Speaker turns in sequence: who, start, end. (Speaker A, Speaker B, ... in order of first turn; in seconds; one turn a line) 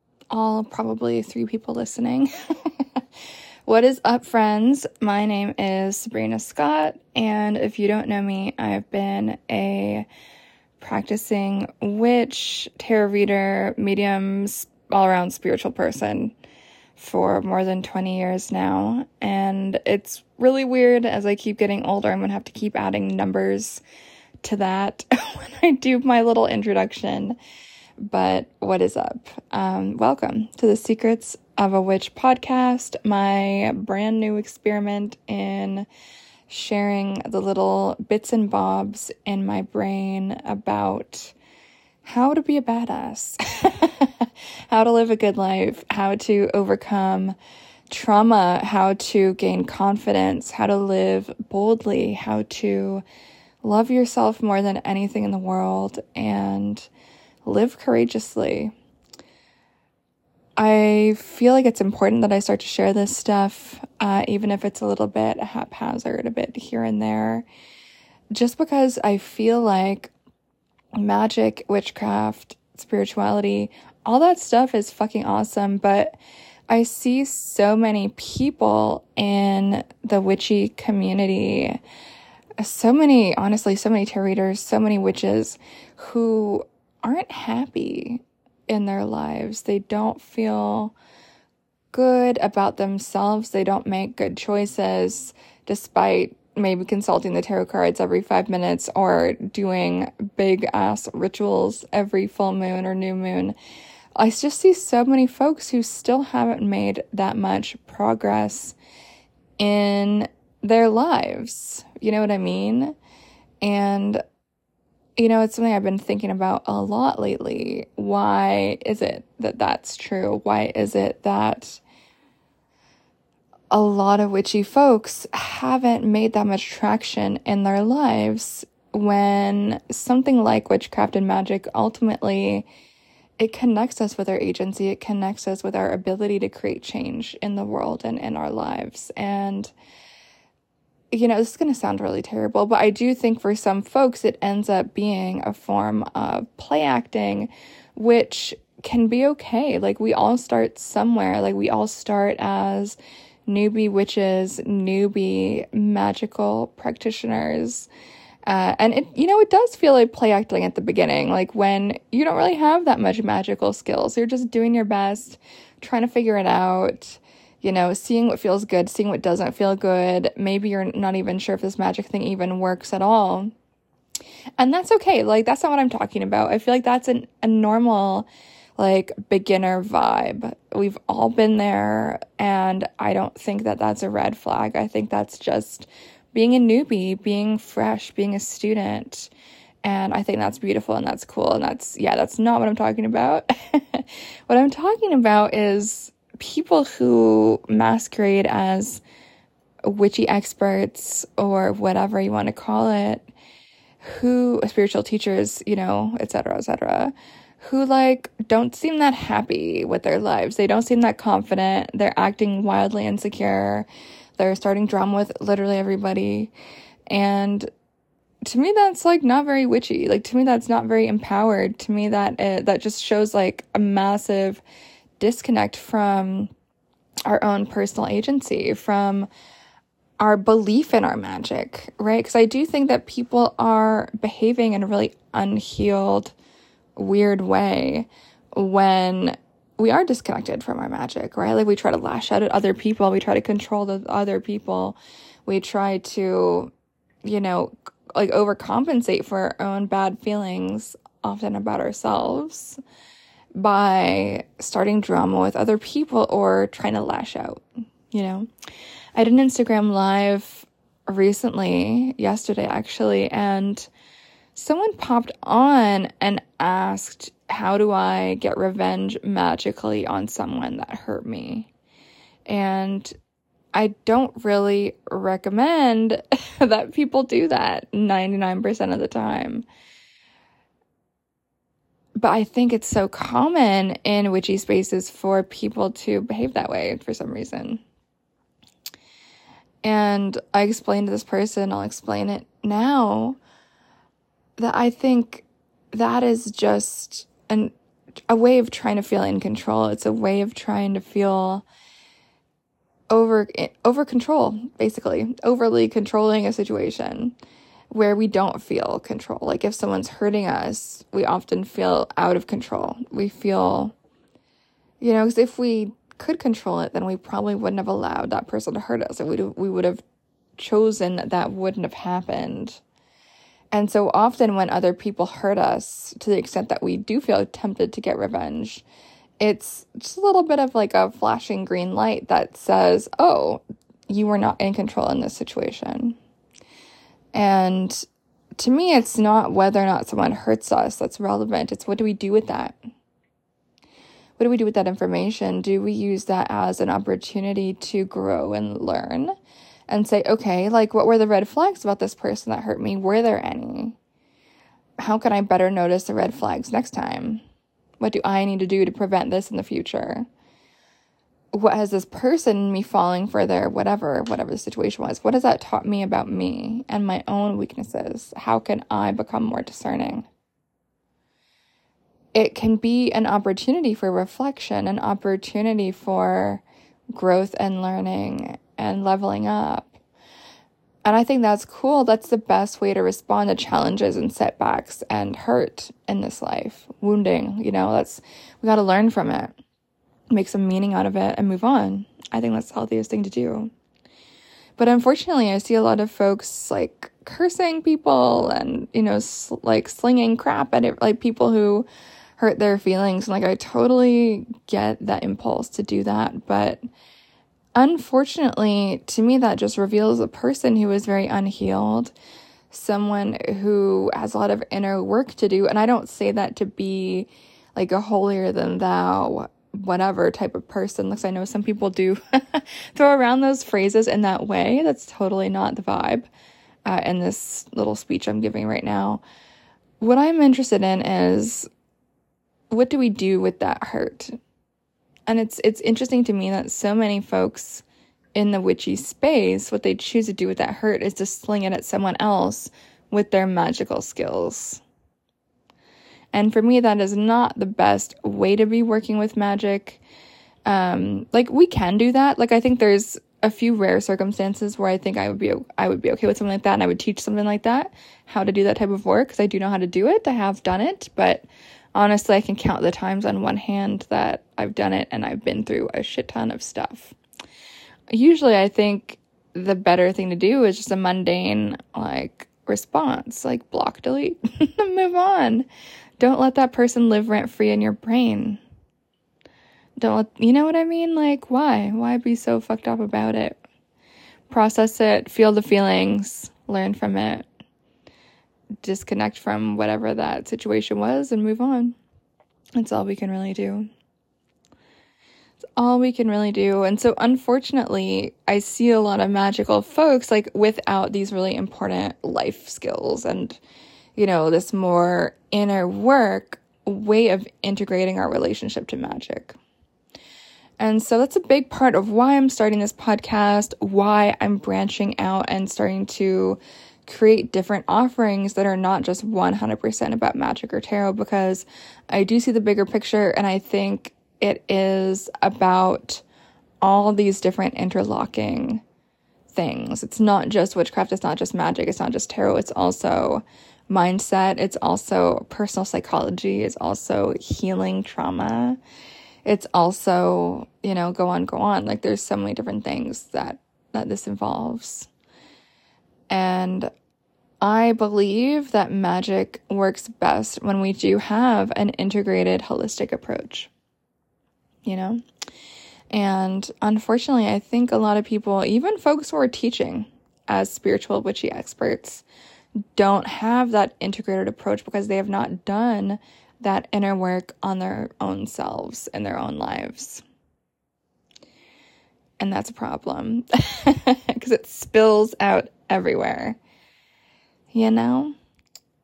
Speaker A: 0.3-3.0
Speaker A: 3.6-10.1
Speaker A: 10.8-16.3
Speaker A: 16.9-23.8
Speaker A: 24.4-27.4
Speaker A: 28.0-35.9
Speaker A: 36.5-41.3
Speaker A: 42.0-47.4
Speaker A: 47.9-53.0
Speaker A: 53.6-56.9
Speaker A: 57.4-58.7
Speaker A: 60.6-67.5
Speaker A: 68.3-70.1
Speaker A: 71.0-76.2
Speaker A: 76.7-81.8
Speaker A: 82.6-90.9
Speaker A: 91.9-103.5
Speaker A: 104.2-108.8
Speaker A: 109.6-113.0
Speaker A: 113.6-114.2
Speaker A: 115.2-121.8
Speaker A: 123.7-132.7
Speaker A: 133.4-139.7
Speaker A: 141.1-157.9
Speaker A: 158.4-173.5
Speaker A: 174.6-189.3
Speaker A: 189.8-199.0
Speaker A: 199.8-203.3
Speaker A: 204.0-213.9
Speaker A: 214.4-216.5
Speaker A: 217.1-217.7
Speaker A: 218.4-224.6
Speaker A: 225.2-226.5
Speaker A: 227.3-229.3
Speaker A: 230.2-236.3
Speaker A: 236.9-246.7
Speaker A: 247.2-252.8
Speaker A: 253.6-258.5
Speaker A: 259.1-263.9
Speaker A: 264.5-271.7
Speaker A: 272.5-273.1
Speaker A: 273.7-279.6
Speaker A: 282.2-287.8
Speaker A: 289.8-293.4
Speaker A: 294.6-297.7
Speaker A: 298.3-301.6
Speaker A: 303.1-307.4
Speaker A: 307.9-313.9
Speaker A: 315.0-320.0
Speaker A: 320.6-322.8
Speaker A: 323.7-328.8
Speaker A: 329.4-336.2
Speaker A: 337.3-338.0
Speaker A: 338.6-342.8
Speaker A: 344.4-349.3
Speaker A: 349.9-353.9
Speaker A: 355.0-357.4
Speaker A: 358.0-360.3
Speaker A: 361.5-370.3
Speaker A: 372.3-376.6
Speaker A: 377.1-380.0
Speaker A: 381.0-389.6
Speaker A: 390.3-393.7
Speaker A: 394.8-401.9
Speaker A: 402.4-406.8
Speaker A: 407.7-412.1
Speaker A: 412.7-426.3
Speaker A: 426.9-429.2
Speaker A: 430.0-431.7
Speaker A: 432.7-434.4
Speaker A: 435.3-444.8
Speaker A: 446.3-450.0
Speaker A: 450.6-467.1
Speaker A: 468.1-475.7
Speaker A: 476.2-478.6
Speaker A: 480.0-483.6
Speaker A: 484.5-487.4
Speaker A: 488.8-491.9
Speaker A: 492.8-493.9
Speaker A: 495.8-503.6
Speaker A: 504.1-509.6
Speaker A: 510.8-526.2
Speaker A: 526.8-528.8
Speaker A: 529.5-538.8
Speaker A: 539.5-545.1
Speaker A: 546.3-546.9
Speaker A: 547.6-553.7
Speaker A: 554.8-555.2
Speaker A: 556.1-562.2
Speaker A: 562.9-570.2
Speaker A: 572.4-576.6
Speaker A: 577.7-578.3